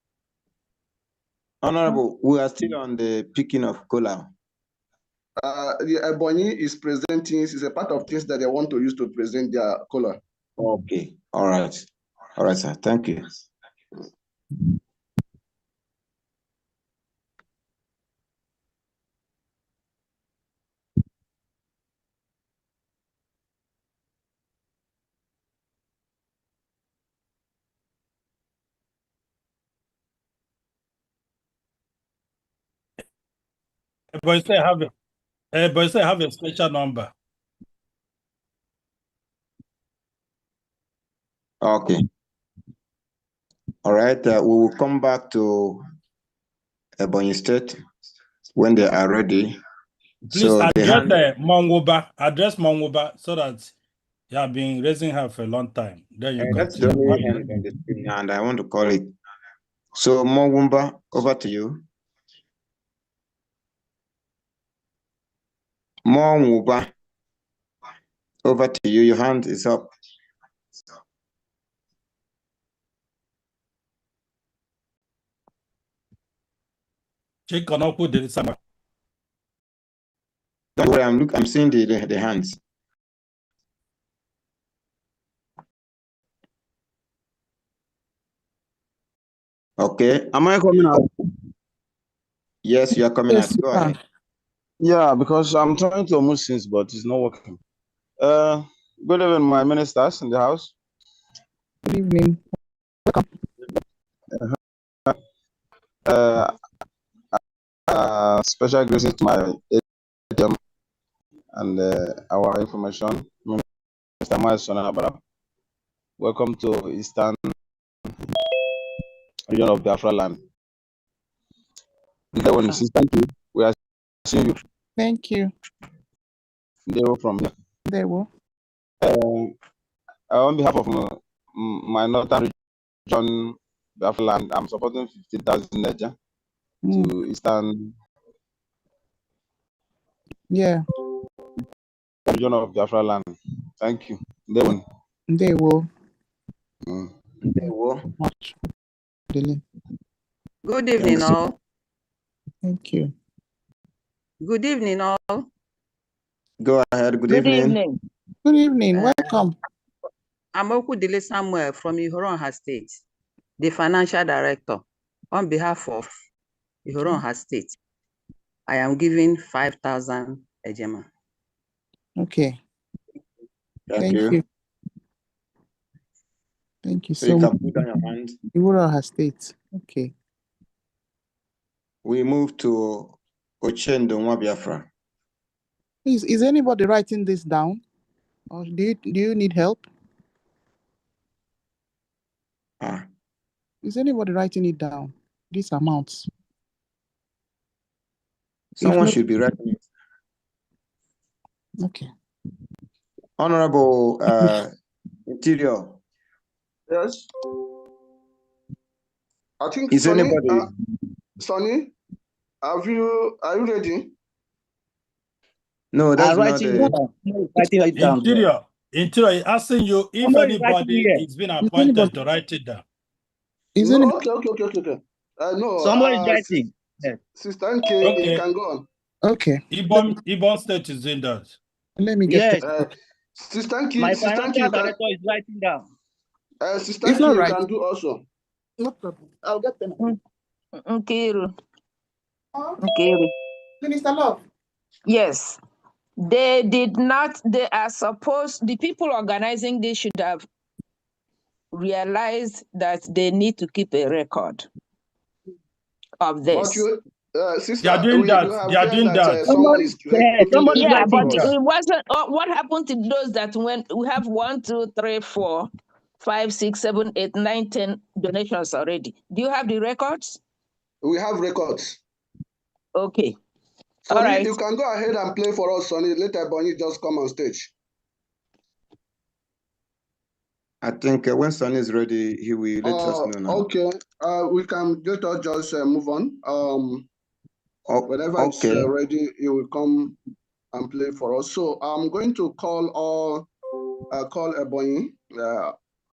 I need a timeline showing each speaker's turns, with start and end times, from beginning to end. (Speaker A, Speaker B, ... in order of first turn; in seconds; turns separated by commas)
Speaker A: 1.6-4.3, Speaker B: 5.4-10.2, Speaker A: 10.6-11.8, Speaker A: 12.4-13.4, Speaker C: 34.1-34.9, Speaker C: 35.5-37.1, Speaker A: 41.6-42.0, Speaker A: 43.8-45.8, Speaker A: 47.0-47.8, Speaker A: 48.5-49.5, Speaker C: 50.3-53.7, Speaker A: 50.3-51.2, Speaker C: 54.3-57.4, Speaker A: 56.4-59.1, Speaker A: 60.0-61.8, Speaker A: 66.0-66.9, Speaker A: 68.4-69.9, Speaker C: 77.5-78.5, Speaker A: 80.8-82.6, Speaker A: 89.8-90.2, Speaker D: 90.3-91.1, Speaker A: 92.6-93.9, Speaker E: 93.3-93.9, Speaker D: 94.8-97.6, Speaker D: 98.2-100.7, Speaker E: 101.8-102.4, Speaker D: 106.0-106.5, Speaker D: 107.9-110.6, Speaker D: 111.5-113.6, Speaker D: 114.2-115.2, Speaker D: 116.2-117.5, Speaker D: 119.5-120.4, Speaker D: 122.3-124.6, Speaker E: 125.0-125.5, Speaker D: 126.8-127.5, Speaker E: 127.9-128.3, Speaker D: 129.0-129.5, Speaker D: 130.3-132.5, Speaker D: 133.1-136.1, Speaker E: 136.8-137.1, Speaker D: 136.9-137.9, Speaker E: 140.5-140.8, Speaker D: 142.3-144.8, Speaker E: 145.3-145.9, Speaker A: 147.4-148.0, Speaker E: 148.2-148.6, Speaker E: 149.3-149.6, Speaker F: 150.6-151.6, Speaker A: 151.0-151.3, Speaker E: 152.6-153.1, Speaker F: 154.4-155.5, Speaker A: 156.6-157.8, Speaker G: 157.3-158.0, Speaker E: 158.4-159.5, Speaker F: 160.5-163.0, Speaker F: 163.6-166.1, Speaker F: 166.8-167.7, Speaker F: 168.7-171.1, Speaker E: 172.2-172.6, Speaker A: 173.9-174.4, Speaker E: 174.0-174.4, Speaker E: 176.8-177.6, Speaker A: 177.2-178.4, Speaker E: 178.5-180.1, Speaker A: 182.0-184.9, Speaker E: 186.0-187.8, Speaker E: 188.5-189.9, Speaker A: 192.8-193.1, Speaker E: 193.8-196.3, Speaker E: 198.8-199.2, Speaker A: 198.8-199.8, Speaker E: 201.8-202.1, Speaker A: 203.4-204.7, Speaker A: 205.3-206.0, Speaker B: 206.9-207.2, Speaker B: 209.6-210.7, Speaker A: 209.9-210.7, Speaker B: 211.4-211.9, Speaker B: 212.6-214.1, Speaker A: 215.9-217.0, Speaker H: 216.2-218.4, Speaker C: 217.9-222.8, Speaker H: 220.2-221.2, Speaker E: 221.6-222.1, Speaker E: 223.7-224.2, Speaker B: 223.8-226.6, Speaker H: 225.8-227.2, Speaker B: 227.3-228.8, Speaker C: 228.0-228.4, Speaker E: 229.2-230.1, Speaker C: 229.7-231.6, Speaker E: 232.0-232.9, Speaker H: 232.3-232.6, Speaker B: 232.6-234.9, Speaker H: 234.0-235.9, Speaker B: 236.6-238.2, Speaker E: 237.0-237.6, Speaker E: 238.8-240.1, Speaker G: 240.8-241.5, Speaker G: 242.8-243.3, Speaker E: 243.8-244.4, Speaker G: 245.1-245.6, Speaker G: 246.2-250.4, Speaker G: 251.7-254.7, Speaker G: 256.2-256.9, Speaker B: 256.5-261.5, Speaker C: 257.8-259.5, Speaker H: 259.5-261.3, Speaker G: 260.6-265.7, Speaker G: 266.2-270.4, Speaker B: 271.0-272.0, Speaker G: 272.9-273.4, Speaker B: 274.1-277.7, Speaker G: 274.1-274.5, Speaker A: 280.8-283.6, Speaker B: 282.8-287.1, Speaker A: 287.9-288.9, Speaker B: 288.1-290.2, Speaker B: 290.7-293.5, Speaker B: 294.1-295.7